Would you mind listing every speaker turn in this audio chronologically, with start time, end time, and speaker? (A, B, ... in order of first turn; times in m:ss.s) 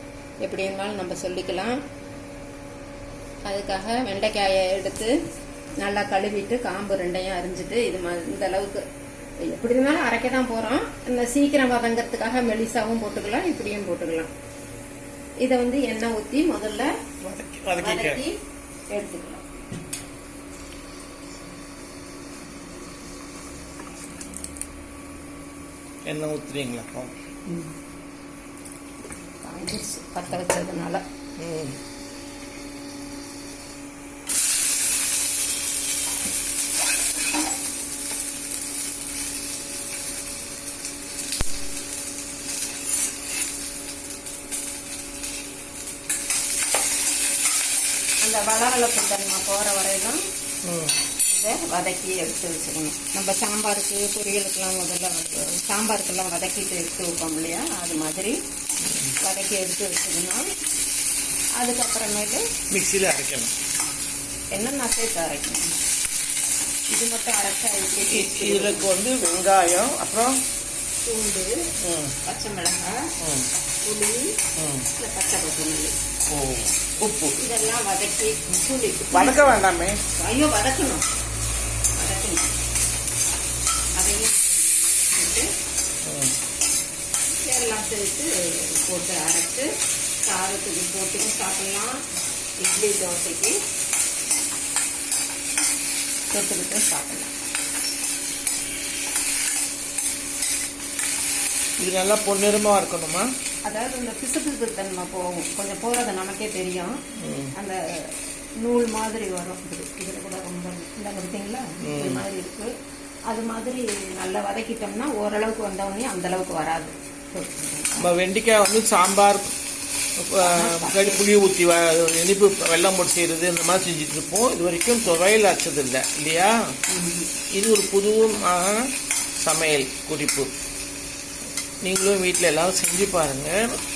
0:00.4-0:01.8 A
0:03.5-0:05.1 A
0:05.8-0:08.8 A
0:09.4-0:14.3 A
0:15.4-0:16.9 A
0:17.2-0:18.2 B
0:17.8-0:18.4 A
0:18.9-0:19.7 A
0:26.1-0:27.3 B
0:27.5-0:27.8 A
0:29.4-0:31.0 A
0:31.4-0:31.8 B
0:48.2-0:50.2 A
0:50.6-0:51.0 B
0:51.3-0:58.4 A
0:58.8-0:59.1 B
0:59.2-1:00.5 A
1:01.6-1:02.4 A
1:02.7-1:03.5 B
1:04.5-1:05.8 A
1:06.9-1:08.9 A
1:08.0-1:10.4 B
1:11.1-1:11.5 A
1:11.8-1:12.2 B
1:12.2-1:13.1 A
1:13.2-1:13.5 B
1:13.8-1:14.4 A
1:14.6-1:14.9 B
1:14.9-1:16.0 A
1:16.3-1:17.4 B
1:17.4-1:21.0 A
1:19.1-1:20.0 B
1:22.0-1:22.6 A
1:24.0-1:25.5 A
1:26.0-1:26.4 B
1:27.5-1:29.7 A
1:30.3-1:32.0 A
1:32.6-1:33.6 A
1:36.3-1:37.3 A
1:41.8-1:43.3 B
1:43.7-1:46.9 A
1:47.2-1:47.5 B
1:47.6-1:52.7 A
1:51.8-1:52.2 B
1:53.3-1:58.1 A
1:58.0-1:59.6 B
2:00.2-2:06.5 B
2:00.4-2:01.3 A
2:06.9-2:07.3 A
2:07.5-2:08.9 B
2:09.4-2:10.5 B
2:11.8-2:13.8 B